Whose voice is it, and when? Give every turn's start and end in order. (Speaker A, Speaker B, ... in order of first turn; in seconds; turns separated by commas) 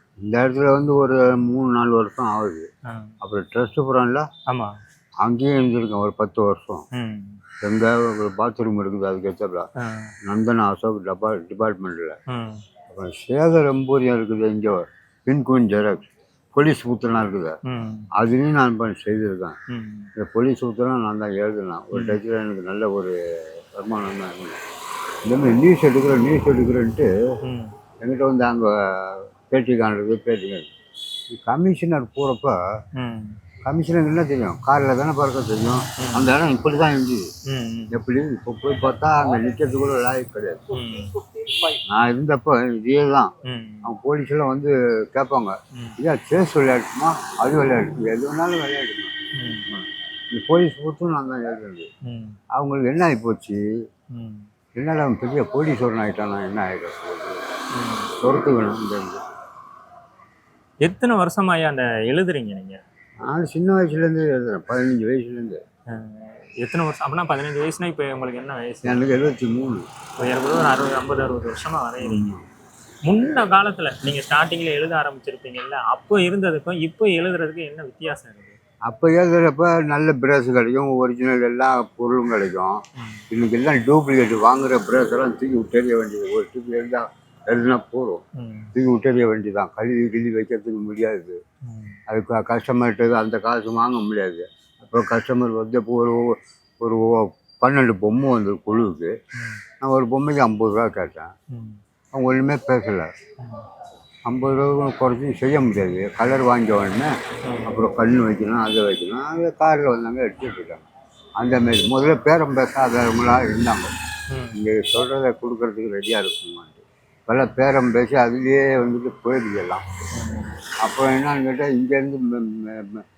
Speaker A: 0.2-2.7, Speaker A: 3.2-4.3, Speaker B: 4.5-4.7, Speaker A: 5.2-6.8, Speaker B: 6.9-7.4, Speaker A: 7.6-9.7, Speaker B: 9.8-10.1, Speaker A: 10.2-12.2, Speaker B: 12.3-12.6, Speaker A: 12.9-17.6, Speaker B: 17.6-18.1, Speaker A: 18.1-19.6, Speaker B: 19.7-20.1, Speaker A: 20.2-24.6, Speaker B: 21.9-22.2, Speaker A: 25.2-27.1, Speaker B: 27.4-27.7, Speaker A: 28.0-30.7, Speaker A: 31.3-32.5, Speaker B: 33.0-33.4, Speaker A: 33.6-37.3, Speaker B: 36.0-36.3, Speaker B: 37.5-37.9, Speaker A: 37.9-40.7, Speaker B: 40.7-41.2, Speaker A: 41.8-43.3, Speaker B: 43.4-43.9, Speaker A: 43.8-49.1, Speaker B: 49.3-49.8, Speaker A: 50.3-51.9, Speaker B: 52.0-52.4, Speaker A: 52.5-53.6, Speaker B: 54.1-54.5, Speaker A: 54.8-57.4, Speaker B: 57.7-58.1, Speaker A: 58.2-59.2, Speaker B: 60.8-62.8, Speaker A: 63.3-65.6, Speaker B: 65.9-69.0, Speaker A: 68.8-69.8, Speaker B: 70.2-72.3, Speaker A: 72.0-72.4, Speaker B: 73.0-78.6, Speaker A: 78.9-88.2, Speaker B: 83.0-83.2, Speaker B: 88.3-88.7, Speaker A: 88.7-91.4, Speaker B: 91.6-92.0, Speaker A: 92.1-99.1, Speaker B: 99.3-99.6, Speaker A: 99.8-101.3, Speaker B: 101.5-101.8, Speaker A: 102.1-103.1, Speaker B: 103.4-103.7, Speaker A: 104.2-107.1, Speaker B: 107.4-107.8, Speaker A: 107.7-113.9, Speaker B: 114.3-114.6, Speaker A: 114.5-119.8, Speaker B: 120.1-120.5, Speaker A: 120.8-123.0